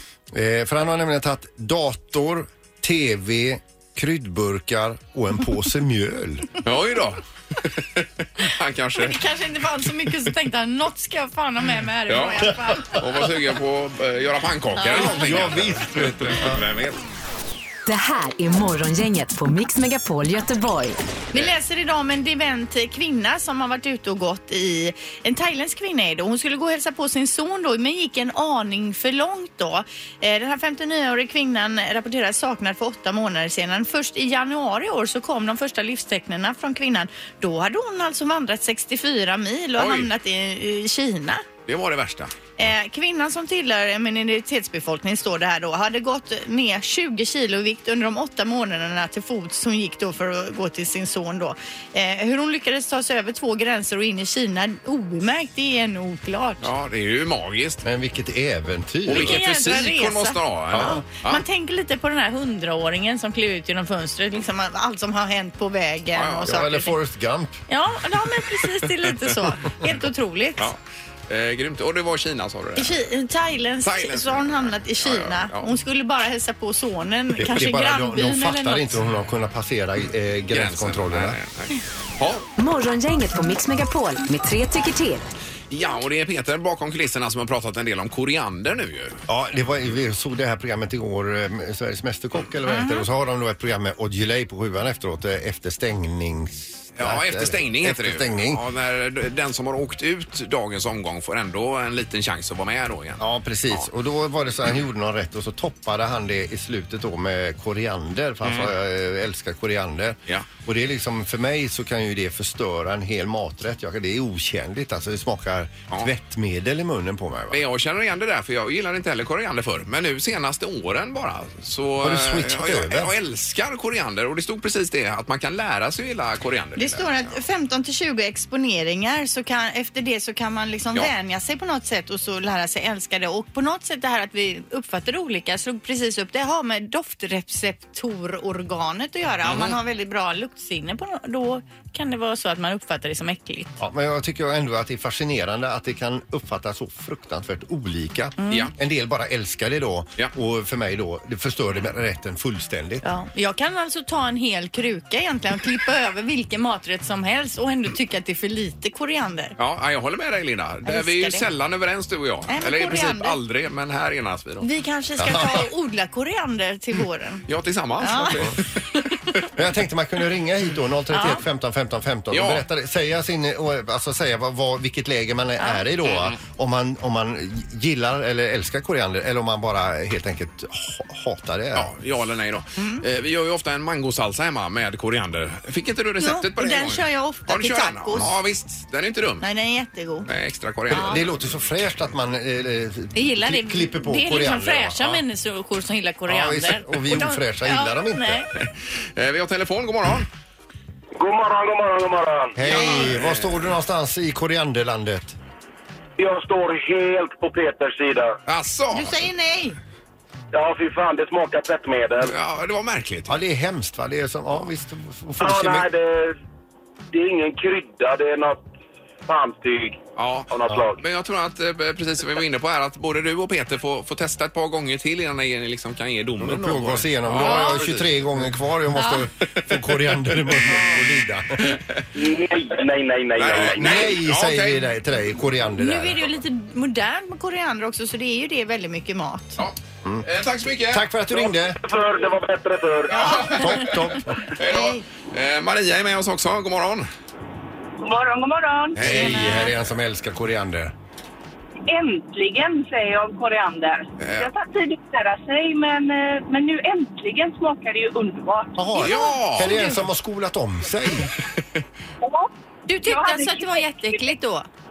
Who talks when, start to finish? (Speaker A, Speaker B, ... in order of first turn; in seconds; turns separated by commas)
Speaker A: 0.3-6.5, Speaker B: 6.6-9.2, Speaker C: 9.0-13.0, Speaker B: 12.1-17.0, Speaker A: 14.8-16.6, Speaker D: 17.9-21.0, Speaker C: 21.3-41.4, Speaker B: 39.8-40.1, Speaker B: 41.6-42.3, Speaker C: 42.6-56.7, Speaker B: 56.6-57.8, Speaker A: 57.8-59.4, Speaker B: 59.0-61.4, Speaker C: 59.1-66.9, Speaker A: 60.7-61.0, Speaker B: 66.1-66.5, Speaker A: 66.4-67.6, Speaker C: 67.7-70.6, Speaker B: 71.3-73.0, Speaker C: 72.8-79.0, Speaker B: 73.8-75.7, Speaker A: 77.4-81.4, Speaker B: 80.5-82.5, Speaker D: 82.6-85.2, Speaker B: 85.7-89.2, Speaker A: 89.3-98.6, Speaker C: 92.7-93.0, Speaker B: 97.0-103.8, Speaker A: 103.2-117.6, Speaker B: 108.4-108.7, Speaker B: 117.5-127.4, Speaker A: 122.0-123.1, Speaker C: 126.8-143.8, Speaker B: 139.4-139.7, Speaker A: 143.8-153.0, Speaker C: 148.4-148.7, Speaker C: 153.0-159.5, Speaker B: 159.6-164.7, Speaker C: 160.8-161.4, Speaker C: 162.5-163.4, Speaker C: 164.6-167.4, Speaker A: 165.2-165.6, Speaker B: 167.5-168.8, Speaker C: 168.0-168.4, Speaker A: 169.6-181.9, Speaker C: 171.1-171.4, Speaker B: 172.3-172.6, Speaker B: 176.1-176.4, Speaker B: 181.7-189.4, Speaker C: 182.8-183.0, Speaker C: 186.2-188.3, Speaker C: 189.4-190.3, Speaker B: 190.3-191.2, Speaker A: 190.9-195.2, Speaker C: 190.9-191.2, Speaker C: 193.1-198.5, Speaker A: 196.3-198.4, Speaker B: 198.6-200.3, Speaker E: 201.2-202.6, Speaker A: 202.6-205.3, Speaker B: 202.6-203.7, Speaker C: 202.7-203.0, Speaker E: 206.2-208.4, Speaker B: 208.5-209.3, Speaker C: 208.9-209.8, Speaker E: 210.5-212.3, Speaker B: 212.2-213.4, Speaker A: 213.3-215.9, Speaker E: 215.4-216.3, Speaker E: 217.1-218.6, Speaker E: 219.3-221.0, Speaker B: 220.2-228.4, Speaker A: 226.4-231.8, Speaker C: 227.4-227.7, Speaker C: 228.9-229.2, Speaker E: 232.1-234.1, Speaker B: 233.4-234.9, Speaker A: 233.7-236.3, Speaker C: 235.8-239.6, Speaker B: 239.6-241.1, Speaker A: 240.9-241.8, Speaker E: 241.4-243.3, Speaker C: 243.1-244.0, Speaker A: 243.2-244.3, Speaker B: 243.4-244.0, Speaker B: 244.6-247.1, Speaker C: 244.7-245.0, Speaker F: 248.0-249.7, Speaker B: 248.9-249.7, Speaker A: 249.0-250.9, Speaker F: 251.9-258.9, Speaker B: 254.2-254.5, Speaker A: 258.8-261.3, Speaker B: 259.0-259.8, Speaker F: 262.2-262.5, Speaker C: 262.9-264.7, Speaker F: 263.0-264.3